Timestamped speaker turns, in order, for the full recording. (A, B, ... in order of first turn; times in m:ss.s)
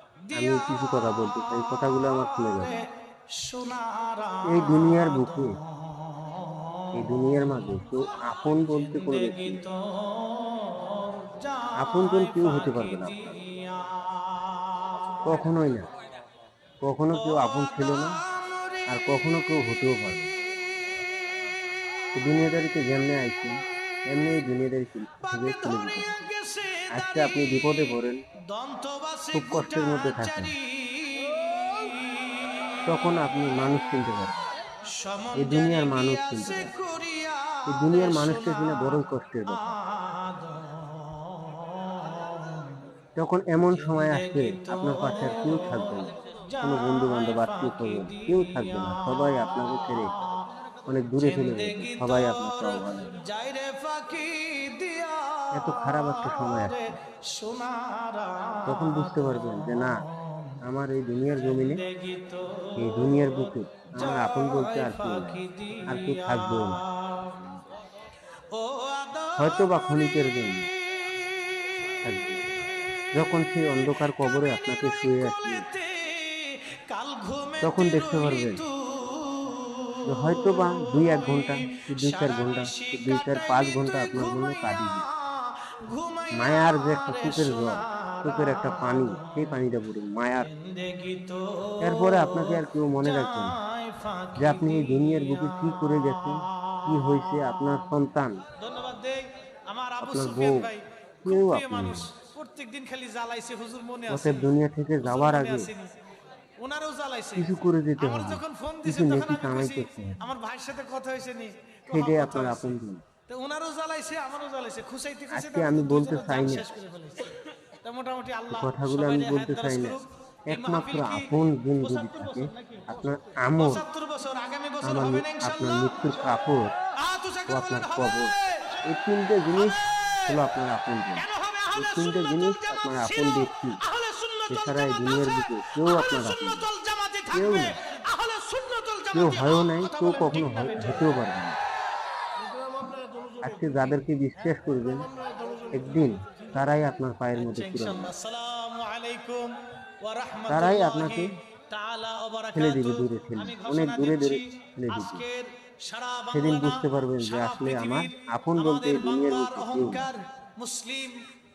0:00.2-0:15.5 A
0:00.3-0:02.8 B
0:04.5-0:05.6 B
0:06.9-0:09.6 B
0:11.8-0:13.3 B
0:15.2-0:15.9 B
0:16.8-0:18.2 B
0:17.1-0:19.0 A
0:18.9-0:20.3 B
0:22.1-0:23.6 B
0:24.1-0:26.3 B
0:25.2-0:27.6 A
0:26.9-0:28.2 B
0:28.4-0:32.9 A
0:29.3-0:30.6 B
0:32.9-0:34.5 B
0:34.9-0:42.8 A
0:35.4-0:36.7 B
0:37.7-0:39.8 B
0:43.2-0:50.1 B
0:43.7-0:50.5 A
0:50.9-0:53.2 B
0:51.2-1:00.6 A
0:55.5-0:57.0 B
0:58.7-1:00.1 B
1:00.6-1:01.8 B
1:01.4-1:07.5 A
1:02.8-1:06.8 B
1:08.5-1:10.5 A
1:09.4-1:10.7 B
1:12.0-1:12.4 B
1:13.1-1:15.7 B
1:15.1-1:29.6 A
1:17.6-1:18.6 B
1:20.1-1:25.1 B
1:26.3-1:30.5 B
1:30.4-1:35.9 A
1:31.8-1:33.6 B
1:34.4-1:38.4 B
1:38.6-1:46.0 A
1:40.0-1:40.7 B
1:41.2-1:42.1 B
1:44.1-1:45.7 B
1:46.6-2:02.9 A
1:47.4-1:50.3 B
1:51.9-1:53.0 B
1:55.3-1:56.7 B
1:58.5-2:03.9 B
2:03.6-2:06.4 A
2:04.8-2:06.7 B
2:06.9-2:08.8 A
2:07.5-2:08.3 B
2:08.8-2:13.8 B
2:09.6-2:10.4 A
2:11.2-2:21.2 A
2:14.5-2:16.7 B
2:17.3-2:17.8 B
2:19.1-2:21.6 B
2:23.4-2:25.1 B
2:25.7-2:28.1 B
2:27.3-2:41.2 A
2:30.5-2:31.3 B
2:32.6-2:35.3 B
2:36.3-2:40.1 B